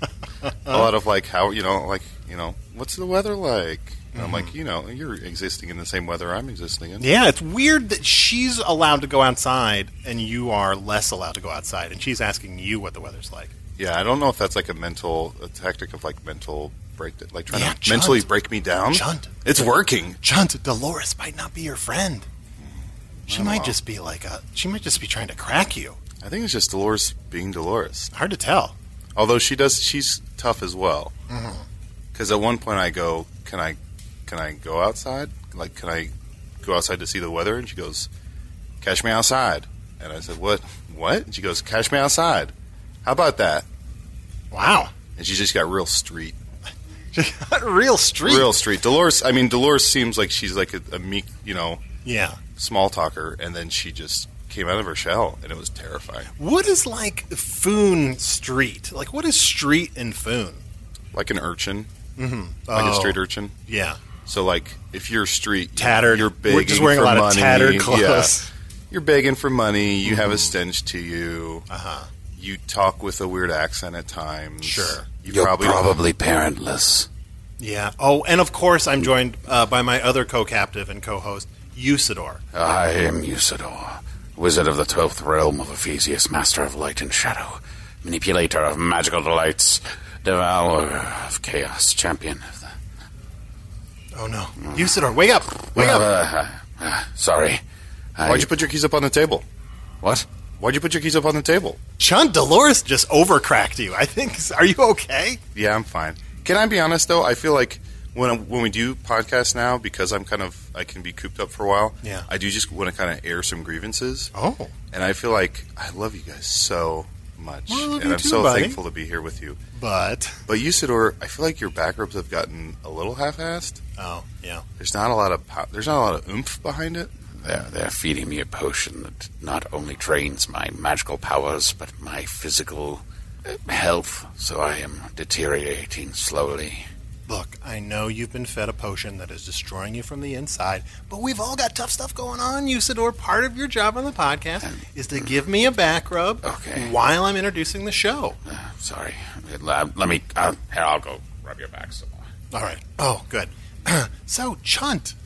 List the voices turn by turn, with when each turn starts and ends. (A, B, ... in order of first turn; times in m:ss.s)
0:00.4-0:00.9 A
0:00.7-0:07.1 B
0:04.1-0:04.5 A
0:07.0-0:13.5 A
0:13.8-0:20.2 B
0:17.5-0:18.3 A
0:18.9-0:19.4 A
0:20.2-0:22.3 A
0:22.6-0:23.8 B
0:23.3-0:26.0 A
0:26.2-0:28.1 B
0:28.1-0:28.7 A
0:29.2-0:31.1 B
0:31.3-0:31.6 A
0:32.1-0:38.1 B
0:38.8-0:42.5 B
0:43.0-0:43.6 B
0:44.5-0:44.9 A
0:45.2-0:46.4 B
0:47.1-0:48.5 A
0:48.2-0:51.8 B
0:52.0-0:52.4 A
0:52.6-0:56.3 B
0:56.4-1:00.6 A
1:01.1-1:01.9 B
1:02.2-1:04.0 A
1:02.7-1:03.6 B
1:04.2-1:08.4 B
1:05.8-1:08.5 A
1:08.9-1:11.7 B
1:10.0-1:10.5 A
1:11.7-1:12.1 A
1:12.3-1:16.0 B
1:14.6-1:15.0 A
1:15.3-1:17.1 C
1:17.6-1:22.4 A
1:22.5-1:32.7 C
1:34.1-1:36.1 A
1:35.6-1:37.6 C
1:38.2-1:38.5 C
1:38.2-1:39.4 B
1:40.6-1:41.8 B
1:42.0-1:45.4 A
1:45.5-1:54.3 B
1:54.3-1:54.7 A
1:54.9-1:59.6 B
1:57.7-1:58.8 A
1:59.7-2:00.4 A
2:00.5-2:03.8 B
2:04.0-2:04.6 A
2:04.8-2:07.1 B
2:07.4-2:16.9 C
2:17.3-2:28.4 A
2:24.6-2:25.3 C
2:26.4-2:26.9 C
2:28.4-2:32.2 C
2:32.5-2:35.1 A